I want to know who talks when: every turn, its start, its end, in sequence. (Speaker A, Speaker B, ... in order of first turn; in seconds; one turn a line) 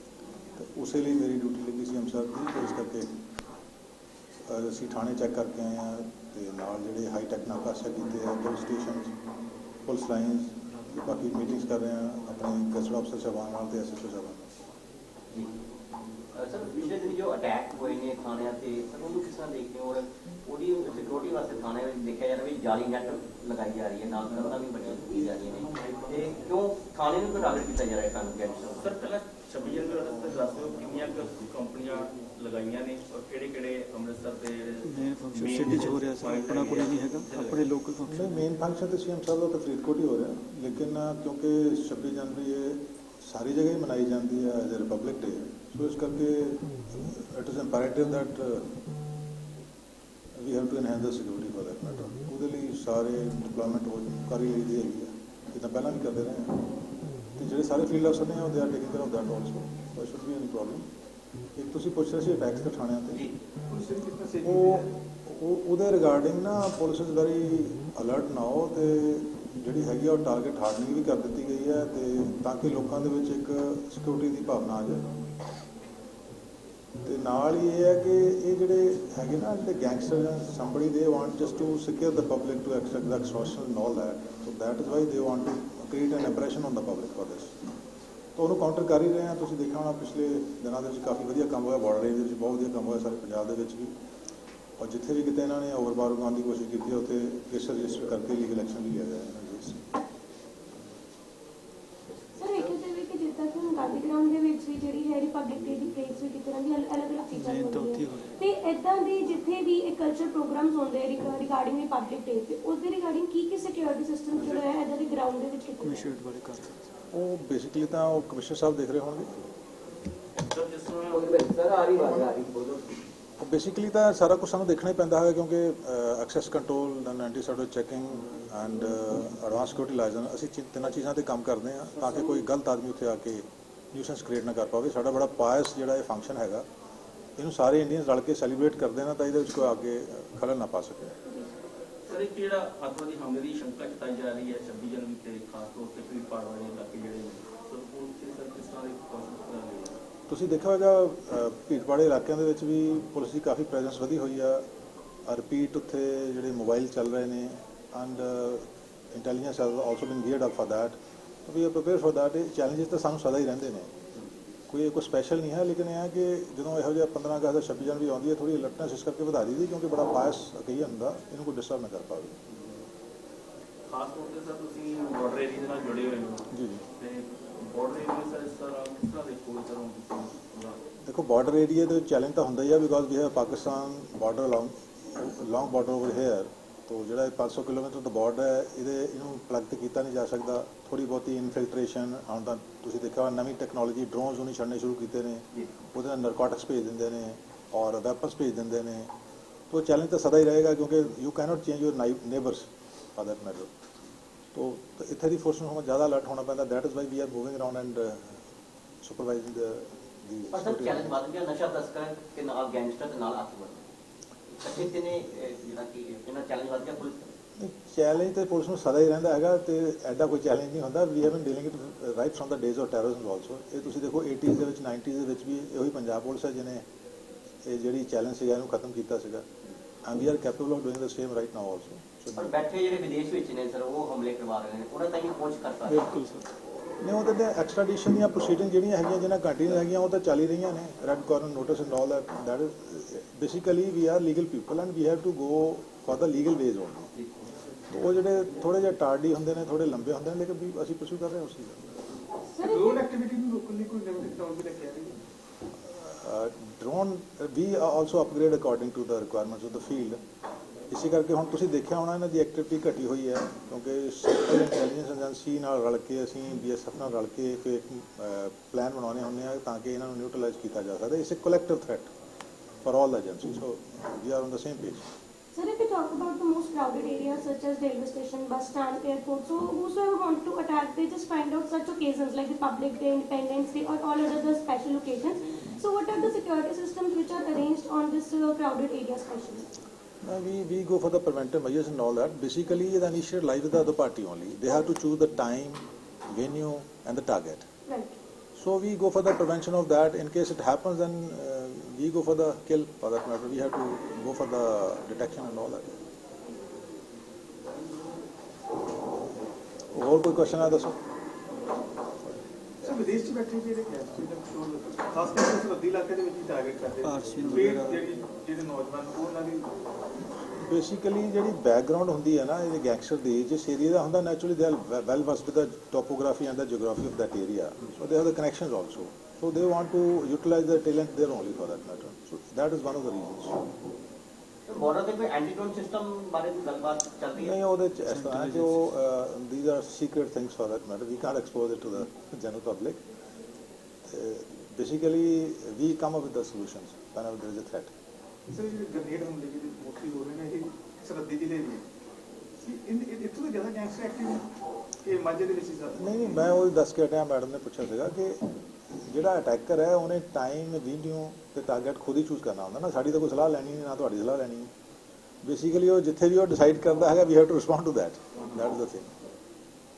Speaker A: 0.5-3.2
Speaker A: 4.4-9.1
Speaker A: 9.8-14.5
Speaker B: 16.3-28.9
Speaker C: 28.8-37.7
Speaker D: 34.9-38.3
Speaker A: 38.0-48.8
Speaker A: 50.3-56.6
Speaker A: 57.4-60.9
Speaker A: 61.5-63.2
Speaker E: 63.7-64.9
Speaker A: 64.4-75.1
Speaker A: 77.0-87.6
Speaker A: 88.3-93.9
Speaker A: 94.8-99.9
Speaker F: 102.3-116.1
Speaker D: 107.3-108.3
Speaker D: 115.8-116.9
Speaker A: 117.1-119.4
Speaker C: 120.5-121.3
Speaker B: 121.1-123.0
Speaker A: 123.4-136.7
Speaker A: 137.4-141.2
Speaker C: 142.1-150.0
Speaker A: 150.3-154.7
Speaker A: 155.2-163.9
Speaker A: 164.7-172.4
Speaker C: 173.9-180.8
Speaker A: 176.5-176.8
Speaker A: 181.1-199.1
Speaker A: 199.7-203.7
Speaker A: 204.5-208.4
Speaker A: 209.0-211.2
Speaker B: 210.5-213.8
Speaker B: 214.5-217.3
Speaker A: 217.6-226.8
Speaker A: 227.6-229.4
Speaker A: 230.0-232.5
Speaker B: 232.3-236.1
Speaker D: 235.9-236.5
Speaker A: 237.0-247.1
Speaker A: 247.9-252.0
Speaker F: 252.5-253.0
Speaker E: 252.6-255.2
Speaker A: 255.8-260.2
Speaker A: 260.9-272.1
Speaker A: 272.8-275.0
Speaker F: 275.5-289.7
Speaker A: 290.2-297.7
Speaker F: 297.9-298.1
Speaker A: 298.6-306.0
Speaker A: 309.9-311.0
Speaker E: 312.8-319.7
Speaker D: 317.0-318.1
Speaker A: 320.5-333.6
Speaker B: 334.7-337.5
Speaker A: 337.4-343.0
Speaker D: 338.1-338.7
Speaker A: 344.1-347.9
Speaker E: 348.5-351.8
Speaker E: 352.6-354.4
Speaker E: 355.0-356.2
Speaker A: 355.9-364.7
Speaker A: 365.4-369.1